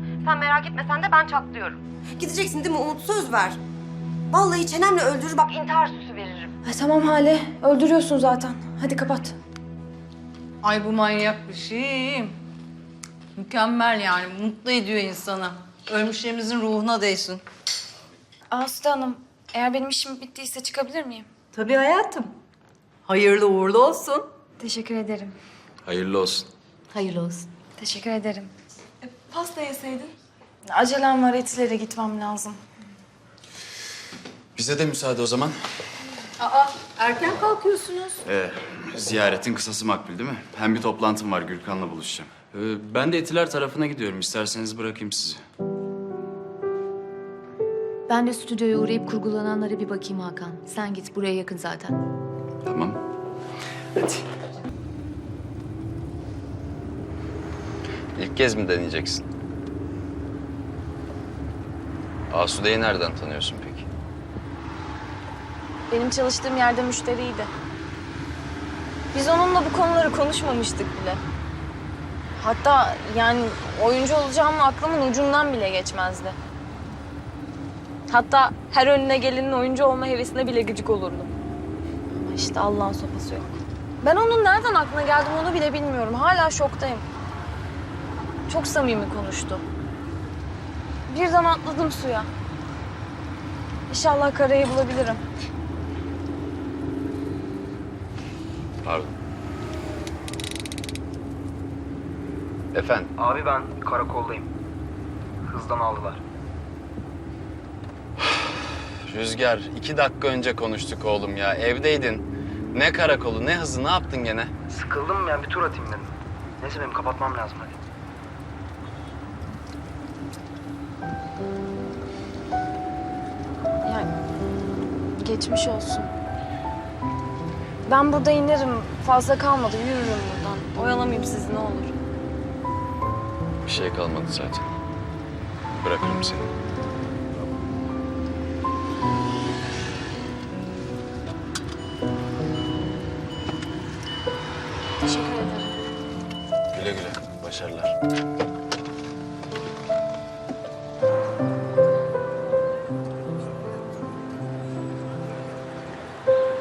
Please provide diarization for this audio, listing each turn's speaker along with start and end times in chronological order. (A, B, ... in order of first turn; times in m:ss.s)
0:00.2-0:03.6 A
0:04.3-0:06.5 A
0:06.6-0:09.4 B
0:10.6-0:12.4 C
0:13.4-0:17.4 C
0:18.5-0:21.2 B
0:21.5-0:22.3 C
0:23.0-0:24.2 C
0:24.6-0:25.3 B
0:25.8-0:26.4 D
0:26.9-0:27.4 E
0:27.8-0:28.5 B
0:30.6-0:32.6 B
0:34.6-0:35.6 D
0:36.4-0:38.2 C
0:38.2-0:45.4 D
0:48.1-0:51.9 E
0:52.6-0:53.0 D
0:58.2-0:59.2 D
1:02.3-1:03.8 D
1:05.9-1:07.5 B
1:09.1-1:11.2 B
1:12.4-1:16.4 B
1:18.1-1:21.3 B
1:22.1-1:27.0 B
1:28.5-1:29.6 B
1:31.1-1:32.3 B
1:33.9-1:35.2 B
1:38.8-1:39.1 D
1:42.7-1:43.1 D
1:43.2-1:44.5 F
1:45.4-1:46.2 F
1:49.1-1:54.5 D
1:54.7-1:56.1 F
1:56.6-1:57.8 F
2:03.8-2:04.1 B
2:05.2-2:06.1 B
2:07.8-2:12.0 B
2:13.6-2:14.6 D
2:15.8-2:16.5 D
2:25.0-2:25.8 B
2:26.7-2:27.9 D